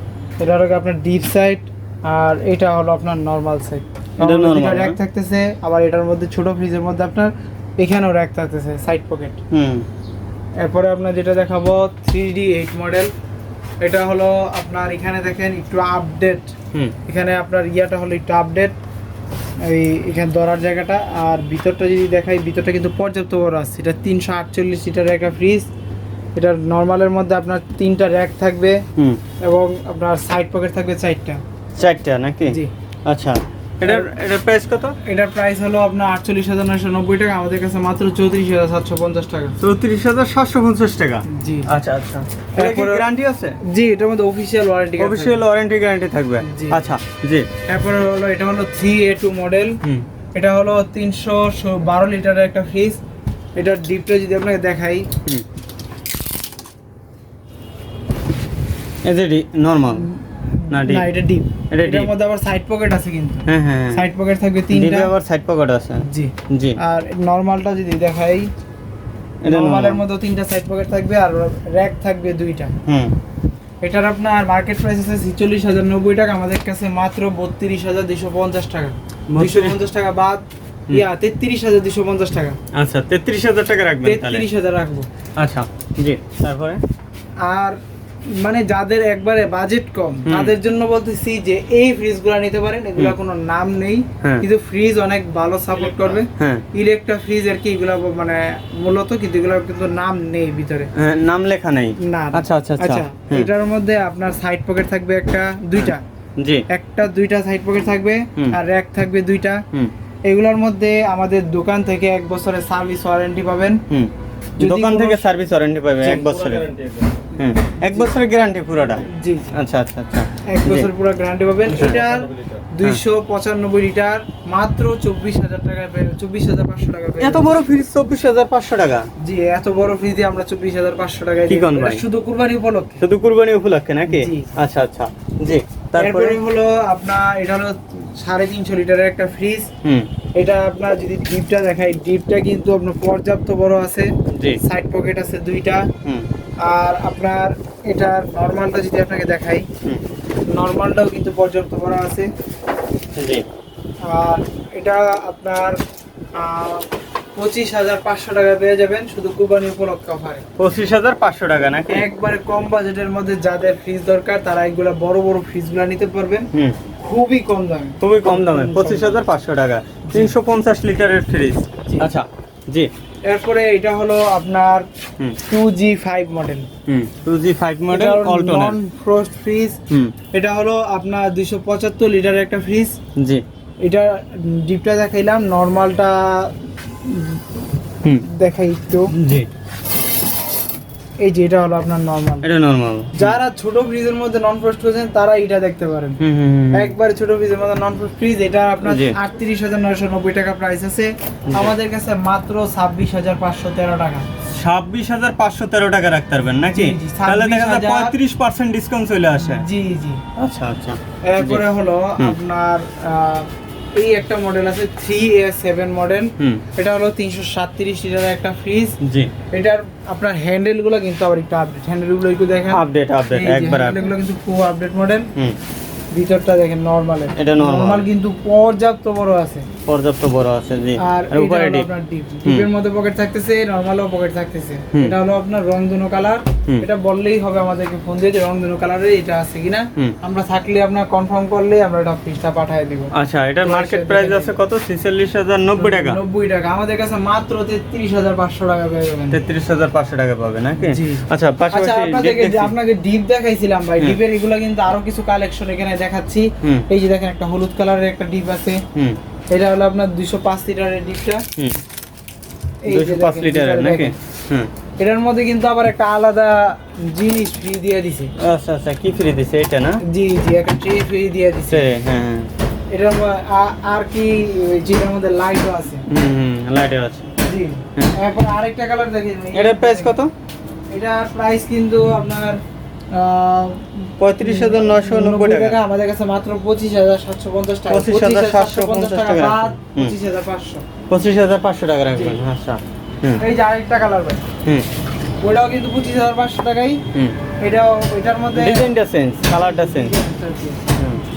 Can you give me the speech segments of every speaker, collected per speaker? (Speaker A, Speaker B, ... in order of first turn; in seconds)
Speaker A: 0.4-9.4, 10.6-13.1, 13.8-18.8, 19.6-25.7, 26.4-28.8, 29.4-31.4, 33.8-34.1, 35.0-39.6, 41.3-41.7, 42.6-43.0, 43.6-45.4, 46.4-46.9, 47.7-49.8, 50.3-53.0, 53.6-55.1, 60.1-65.1, 66.0-68.5, 69.5-72.7, 73.8-82.6, 84.0-85.1, 87.4-87.8, 88.3-100.9, 102.0-106.0, 106.7-109.6, 110.3-113.8, 114.6-115.2, 116.0-116.9, 117.8-118.1, 119.0-119.6, 120.5-127.5, 129.2-133.0, 134.1-134.5, 136.0-139.7, 140.4-145.9, 146.6-149.7, 150.5-152.3, 154.1-155.8, 156.4-160.4, 161.9-169.2, 173.3-174.9, 175.5-176.7, 177.9-179.8, 180.3-183.0, 183.8-187.6, 188.2-189.1, 191.2-192.5, 193.2-196.2, 196.7-204.3, 206.7-208.2, 209.4-210.2, 211.2-219.0, 219.5-225.3, 226.1-229.7, 231.0-244.6, 245.8-249.4, 250.8-258.8, 259.5-261.4, 262.9-264.1, 265.0-268.3, 270.1-271.9, 272.9-276.1, 277.5-280.2, 280.9-282.6, 283.1-290.9, 292.1-292.4, 293.4-294.4, 295.4-297.0, 297.6-298.9, 299.5-300.8
Speaker B: 4.2-5.0, 9.5-9.9, 29.0-29.2, 31.8-35.0, 39.6-43.6, 45.0-47.5, 59.0-60.1, 60.7-61.1, 61.7-62.1, 63.5-64.0, 64.7-66.8, 69.4-70.0, 72.9-73.2, 79.3-79.8, 82.7-84.5, 85.4-86.8, 90.2-90.5, 95.9-96.7, 101.0-103.5, 105.8-106.6, 113.9-116.7, 117.3-120.9, 121.7-123.0, 127.2-129.1, 131.5-132.1, 133.0-136.4, 144.3-144.6, 153.2-153.4, 160.6-162.1, 168.0-172.9, 176.9-178.8, 183.2-183.4, 189.1-189.5, 192.4-193.4, 196.2-196.9, 198.8-199.2, 201.5-201.7, 204.5-209.7, 210.4-211.6, 219.0-219.3, 222.7-224.1, 227.4-228.1, 229.9-231.9, 243.1-246.2, 249.3-252.7, 262.9-264.7, 268.4-270.0, 271.7-272.5, 276.1-277.3, 279.5-280.3, 284.2-285.8, 287.9-290.2, 291.1-293.4, 298.5-300.1, 301.0-301.2